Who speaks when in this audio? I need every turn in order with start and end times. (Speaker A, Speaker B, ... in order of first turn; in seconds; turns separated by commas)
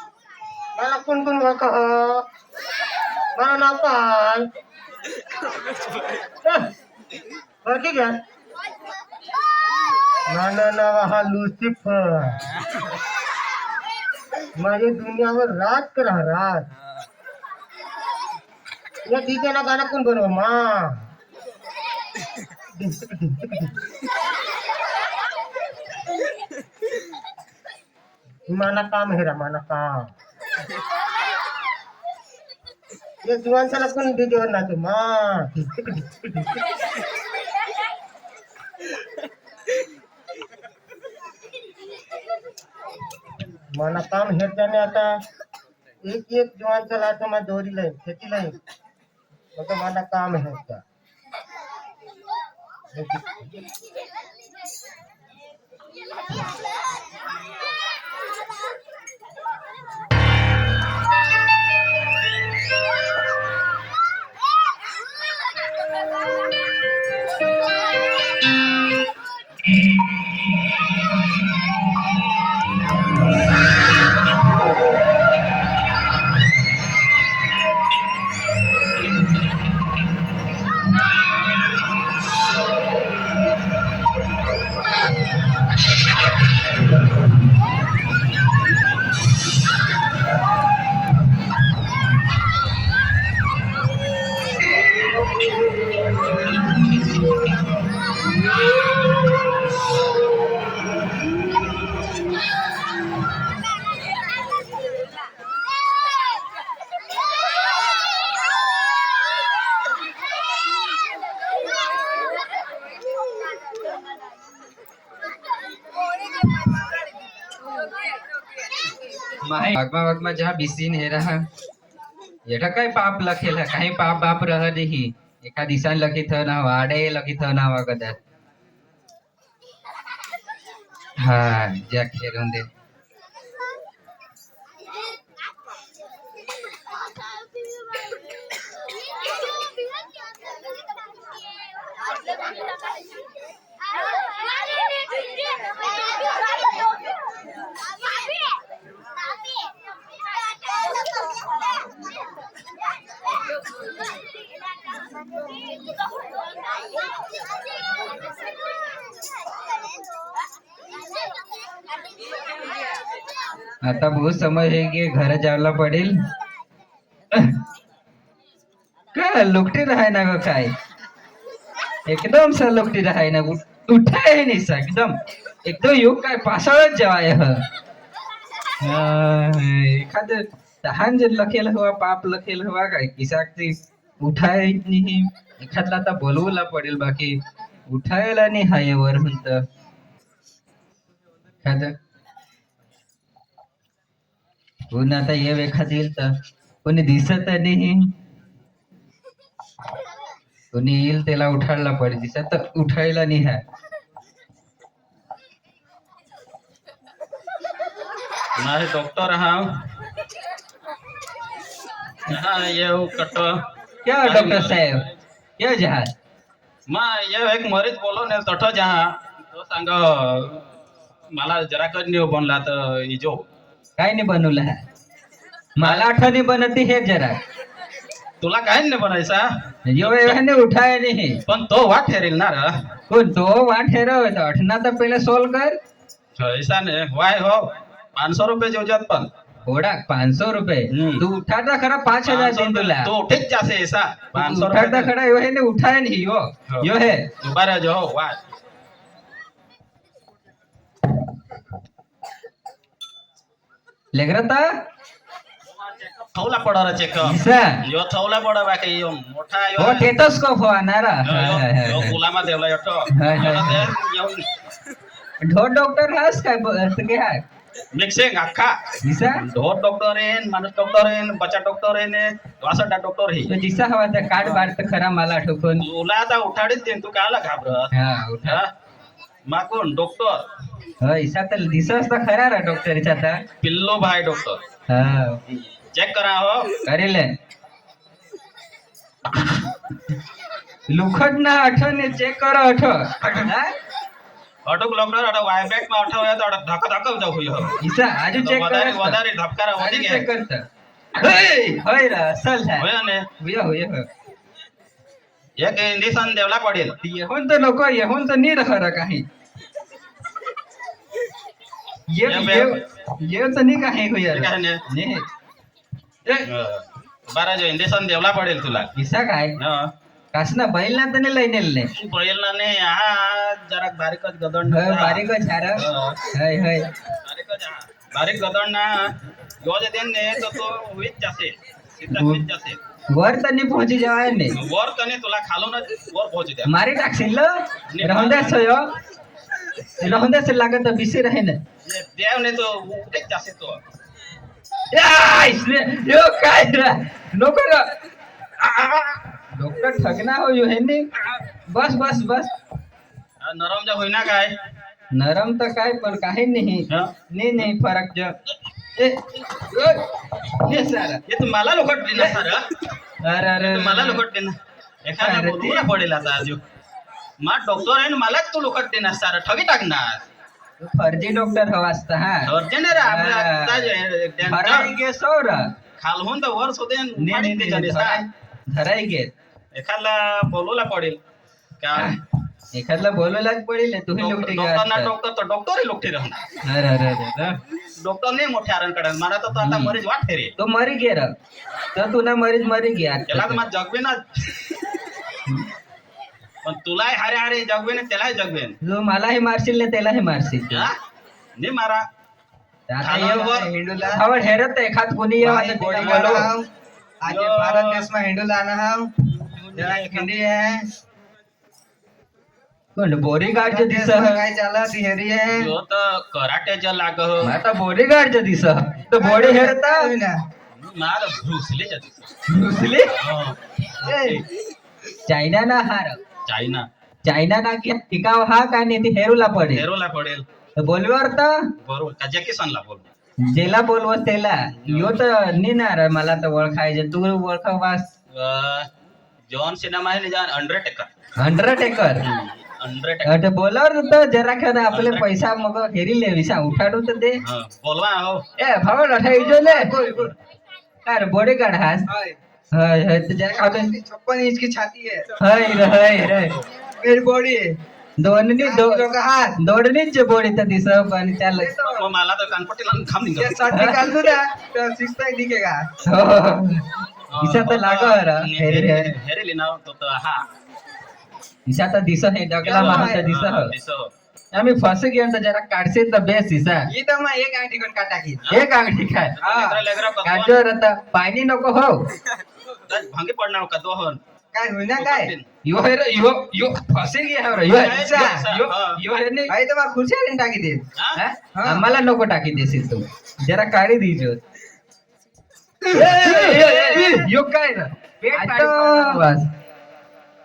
Speaker A: 0.8-2.2, Speaker A: 3.4-4.5, Speaker A: 6.4-6.7, Speaker A: 7.7-8.2, Speaker A: 10.3-12.4, Speaker A: 14.6-16.7, Speaker A: 19.1-21.1, Speaker A: 22.8-23.7, Speaker A: 28.5-30.1, Speaker A: 33.2-36.3, Speaker A: 43.7-45.2, Speaker A: 46.0-48.6, Speaker A: 49.6-50.8, Speaker A: 52.9-53.6, Speaker B: 119.4-121.5, Speaker B: 122.5-128.2, Speaker B: 131.2-132.7, Speaker B: 163.8-166.2, Speaker B: 167.3-167.6, Speaker B: 169.1-170.7, Speaker B: 172.1-177.6, Speaker B: 178.8-189.7, Speaker B: 191.6-191.9, Speaker B: 194.9-198.1, Speaker B: 200.7-203.6, Speaker C: 208.6-209.9, Speaker C: 212.3-213.6, Speaker B: 214.1-215.1, Speaker C: 214.2-215.1, Speaker B: 215.6-216.1, Speaker C: 216.9-220.6, Speaker C: 221.3-223.4, Speaker B: 224.0-224.8, Speaker B: 225.8-227.4, Speaker C: 228.4-230.4, Speaker B: 229.9-231.4, Speaker C: 231.5-232.9, Speaker B: 233.1-235.8, Speaker C: 236.4-239.3, Speaker B: 239.7-243.2, Speaker C: 240.9-241.2, Speaker C: 242.2-245.1, Speaker B: 244.3-247.3, Speaker C: 247.4-248.4, Speaker B: 254.1-254.8, Speaker C: 255.7-260.1, Speaker B: 257.2-257.8, Speaker B: 259.8-262.2, Speaker C: 261.2-264.5, Speaker B: 263.1-263.9, Speaker B: 265.4-267.4, Speaker C: 267.9-273.5, Speaker B: 269.0-269.4, Speaker B: 273.5-275.9, Speaker C: 274.4-274.7, Speaker C: 275.8-277.9, Speaker B: 277.9-278.6, Speaker C: 278.4-278.7, Speaker C: 279.5-280.5, Speaker B: 281.0-283.4, Speaker C: 283.6-284.6, Speaker B: 284.9-285.4, Speaker C: 285.5-286.8, Speaker B: 286.9-287.3, Speaker B: 290.9-293.7, Speaker C: 293.2-293.5, Speaker C: 294.6-297.8, Speaker B: 297.8-299.2, Speaker C: 298.3-300.3, Speaker B: 299.8-300.6, Speaker B: 301.2-302.9, Speaker C: 302.8-303.3, Speaker B: 303.4-304.1, Speaker C: 305.6-306.9, Speaker B: 307.0-309.2, Speaker B: 312.1-315.3, Speaker C: 312.3-312.8, Speaker C: 314.3-314.8, Speaker C: 316.5-318.9, Speaker B: 319.0-319.6, Speaker C: 319.6-319.9, Speaker B: 320.3-321.9, Speaker C: 321.9-326.2, Speaker B: 324.7-326.9, Speaker C: 327.2-332.8, Speaker B: 332.2-332.4, Speaker B: 333.1-334.6, Speaker C: 334.5-336.7, Speaker B: 336.7-338.9, Speaker C: 337.9-338.8, Speaker B: 340.0-341.6, Speaker C: 341.9-343.8, Speaker B: 344.9-347.9, Speaker B: 348.6-351.1, Speaker B: 351.7-352.5, Speaker C: 353.4-354.6, Speaker B: 355.1-358.4, Speaker B: 359.0-361.2, Speaker C: 361.3-362.7, Speaker B: 363.2-364.2, Speaker C: 363.6-366.6, Speaker B: 365.2-365.9, Speaker C: 367.4-370.2, Speaker B: 370.8-375.7, Speaker C: 372.5-374.9, Speaker C: 376.0-378.2, Speaker B: 377.2-379.3, Speaker C: 379.7-381.2, Speaker C: 381.8-382.1, Speaker B: 381.9-385.1, Speaker C: 384.2-386.4, Speaker B: 386.6-387.6, Speaker C: 388.0-390.5, Speaker B: 389.6-390.0, Speaker B: 390.6-391.3, Speaker B: 391.9-393.6, Speaker C: 393.3-394.7, Speaker C: 396.6-398.8, Speaker B: 398.8-400.9, Speaker C: 400.7-401.0, Speaker C: 401.6-402.1, Speaker B: 402.9-403.6, Speaker C: 403.0-403.7, Speaker D: 403.4-404.2, Speaker B: 404.1-406.5, Speaker D: 405.4-406.7, Speaker C: 406.0-406.5, Speaker D: 407.2-409.1, Speaker C: 407.2-408.1, Speaker C: 409.4-410.3, Speaker D: 409.8-410.9, Speaker B: 413.0-414.4, Speaker D: 413.6-415.7, Speaker C: 415.5-417.5, Speaker B: 417.4-420.1, Speaker D: 419.2-420.4, Speaker C: 420.8-422.2, Speaker B: 422.5-423.1, Speaker C: 423.1-424.4, Speaker D: 424.0-424.4, Speaker B: 425.3-426.2, Speaker C: 426.5-426.9, Speaker B: 427.2-429.9, Speaker C: 429.6-430.4, Speaker B: 430.8-431.7, Speaker C: 431.8-433.1, Speaker B: 433.5-438.1, Speaker C: 434.8-435.2, Speaker C: 438.3-438.9, Speaker C: 439.5-441.1, Speaker B: 441.4-442.2, Speaker C: 442.2-443.3, Speaker B: 443.2-447.4, Speaker C: 444.9-445.3, Speaker C: 447.4-448.4, Speaker B: 448.6-449.9, Speaker D: 449.5-450.3, Speaker B: 451.1-452.1, Speaker D: 452.1-452.4, Speaker B: 452.7-453.9, Speaker D: 453.6-455.3, Speaker B: 455.4-456.5, Speaker D: 457.0-457.8, Speaker B: 458.2-461.8, Speaker D: 458.6-459.6, Speaker D: 461.5-462.1, Speaker C: 461.8-463.6, Speaker D: 463.4-465.9, Speaker B: 463.7-464.1, Speaker B: 466.1-466.9, Speaker C: 467.3-470.5, Speaker B: 467.4-469.1, Speaker B: 471.7-473.7, Speaker C: 472.6-474.1, Speaker D: 472.7-473.2, Speaker B: 474.5-476.9, Speaker D: 476.9-478.4, Speaker B: 478.5-479.4, Speaker C: 479.4-480.6, Speaker D: 479.4-479.8, Speaker B: 480.2-482.1, Speaker C: 482.9-484.2, Speaker D: 484.5-485.3, Speaker C: 484.9-485.5, Speaker B: 485.7-488.3, Speaker C: 487.5-489.0, Speaker D: 487.8-488.7, Speaker B: 488.9-489.6, Speaker D: 489.5-490.9, Speaker C: 491.0-491.2, Speaker B: 491.2-494.4, Speaker D: 491.6-491.9, Speaker D: 495.9-499.3, Speaker B: 495.9-499.5